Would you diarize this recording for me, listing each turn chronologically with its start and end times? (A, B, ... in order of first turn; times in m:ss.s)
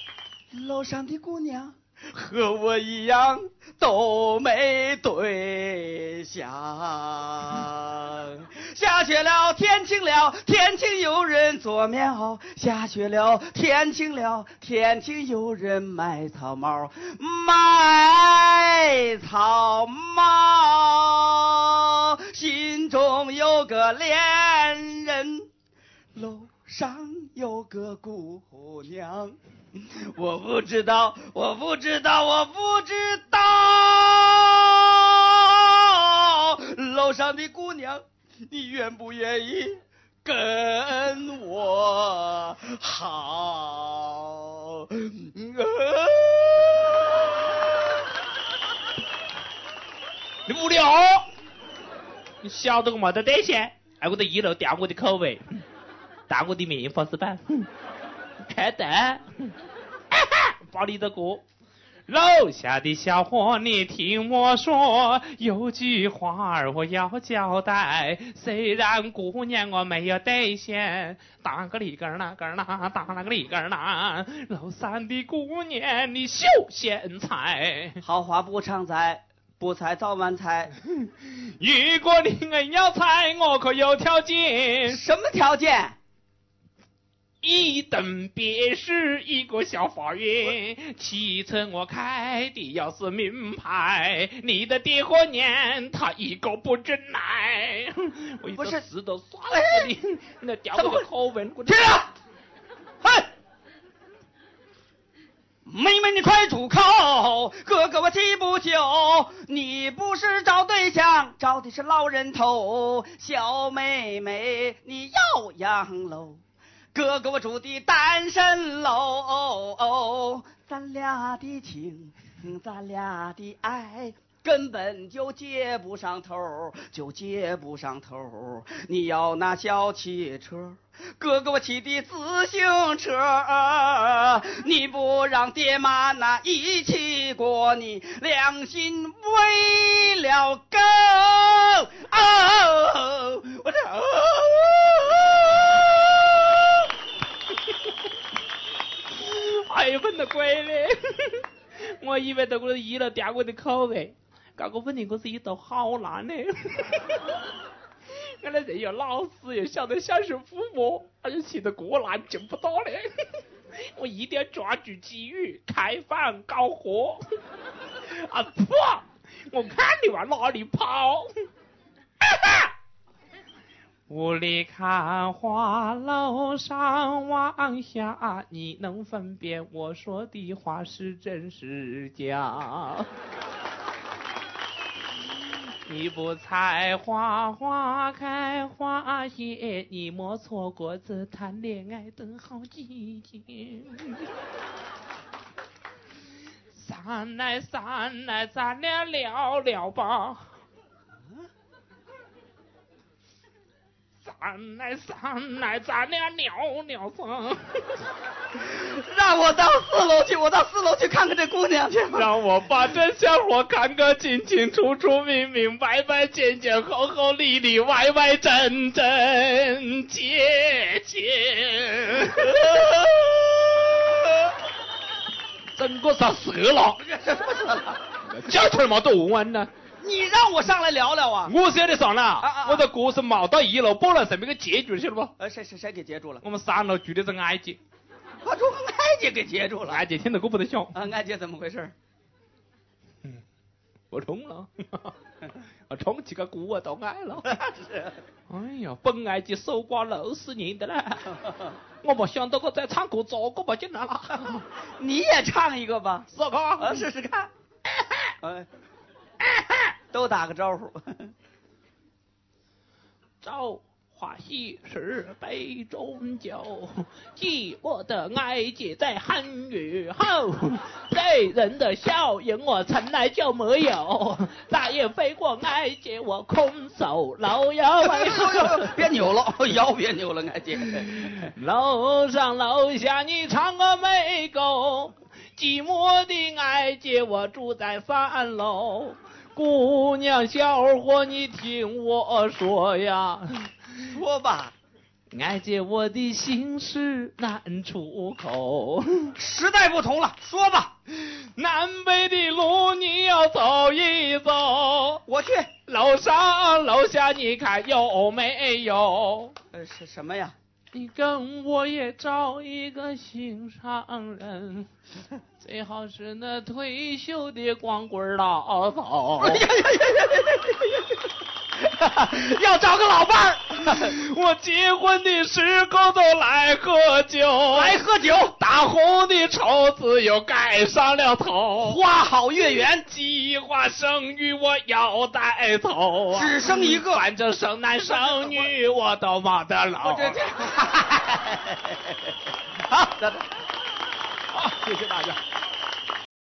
0:00.5-0:25.5 A
0:26.1-0:46.8 A
0:50.5-0:51.3 B
0:52.4-0:55.6 B
0:56.3-0:57.7 B
0:58.4-0:59.5 B
1:00.1-1:01.4 B
1:02.1-1:18.0 B
1:18.0-1:20.7 A
1:21.0-1:25.0 B
1:24.9-1:26.0 A
1:27.4-1:41.9 B
1:38.5-1:38.9 A
1:39.5-1:39.9 A
1:40.8-1:41.1 A
1:41.6-1:42.1 A
1:43.0-1:43.3 A
1:45.6-1:56.4 A
1:56.9-2:26.7 A
2:29.2-2:37.2 B
2:38.4-2:43.1 B
2:43.7-2:47.2 B
2:48.1-2:51.3 B
2:52.2-2:52.7 B
2:54.1-3:03.1 B
3:05.8-3:14.3 B
3:16.7-3:20.5 B
3:24.2-3:28.0 B
3:28.5-3:32.3 A
3:32.1-3:42.7 B
3:42.3-3:44.1 A
3:45.7-3:47.0 B
3:47.0-3:48.0 A
3:48.2-3:49.7 B
3:50.0-3:51.5 A
3:51.5-3:55.3 B
3:52.4-3:52.9 A
3:55.4-3:56.4 A
3:56.4-3:57.8 B
3:58.4-4:00.0 A
3:59.9-4:00.9 B
4:00.9-4:01.9 A
4:04.1-4:05.1 B
4:05.9-4:07.6 B
4:07.4-4:08.2 A
4:08.5-4:11.2 B
4:11.2-4:11.8 A
4:12.0-4:14.6 B
4:15.0-4:17.5 A
4:16.3-4:17.0 B
4:18.0-4:18.2 B
4:18.4-4:18.7 A
4:20.1-4:21.3 A
4:23.4-4:39.1 B
4:38.0-4:41.5 A
4:40.8-4:54.1 B
4:54.1-4:54.7 A
4:55.3-4:59.3 B
4:59.3-5:00.9 A
5:01.1-5:05.2 B
5:05.2-5:05.7 A
5:05.9-5:09.5 B
5:09.7-5:10.5 A
5:10.9-5:14.9 B
5:15.6-5:19.6 B
5:19.4-5:21.0 A
5:21.8-5:24.1 A
5:23.8-5:28.0 B
5:27.7-5:28.5 A
5:28.6-5:32.0 B
5:31.8-5:33.0 A
5:33.0-5:40.4 B
5:36.3-5:37.2 A
5:38.3-5:38.6 A
5:40.0-5:42.2 A
5:42.9-5:43.4 A
5:44.5-5:45.4 B